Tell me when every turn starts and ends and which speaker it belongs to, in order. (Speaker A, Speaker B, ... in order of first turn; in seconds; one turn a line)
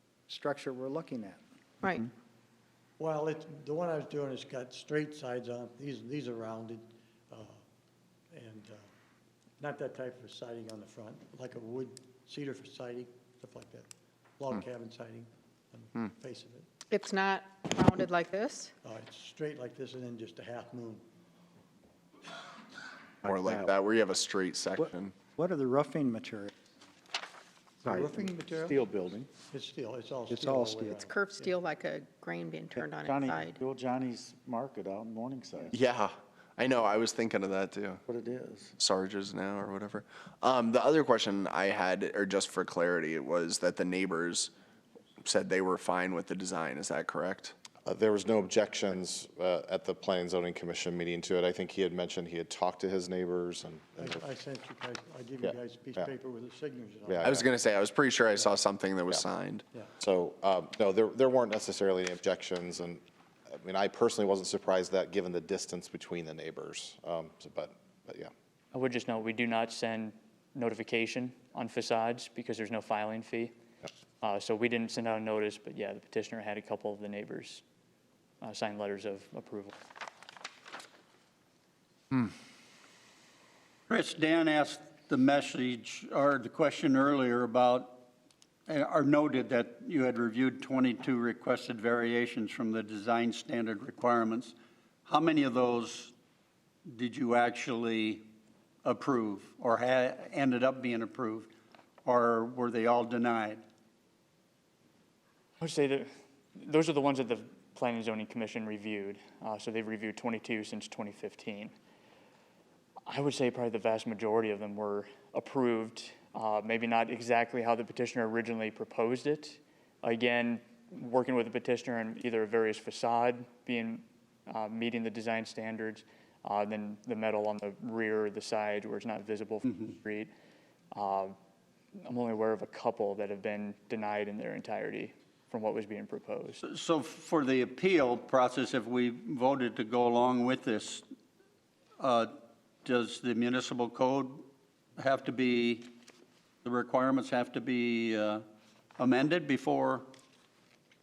Speaker A: 0.3-1.4
Speaker B: 1.8-2.1
Speaker C: 3.0-7.6
Speaker C: 8.3-8.9
Speaker C: 9.6-16.7
Speaker B: 16.9-18.7
Speaker C: 18.8-21.0
Speaker D: 23.2-25.1
Speaker E: 23.3-23.7
Speaker A: 25.4-26.5
Speaker C: 27.8-31.5
Speaker E: 27.9-29.3
Speaker A: 30.3-31.1
Speaker B: 30.9-33.6
Speaker E: 33.0-35.8
Speaker D: 35.7-38.0
Speaker E: 38.1-38.7
Speaker D: 38.8-44.5
Speaker D: 45.2-47.5
Speaker F: 47.8-54.2
Speaker C: 54.0-57.3
Speaker F: 55.4-56.1
Speaker F: 57.1-57.4
Speaker D: 57.2-59.6
Speaker F: 60.0-68.3
Speaker G: 68.7-73.5
Speaker G: 74.2-77.6
Speaker G: 78.4-79.7
Speaker H: 83.9-88.0
Speaker H: 88.7-94.5
Speaker H: 95.0-96.1
Speaker H: 96.9-98.2
Speaker H: 98.8-101.5
Speaker H: 102.0-103.6
Speaker G: 105.6-111.7
Speaker G: 113.1-130.3
Speaker G: 130.9-131.3
Speaker G: 132.0-136.6
Speaker H: 136.6-141.0
Speaker H: 142.0-142.3
Speaker H: 142.8-145.9
Speaker H: 146.6-148.4
Speaker H: 149.0-150.1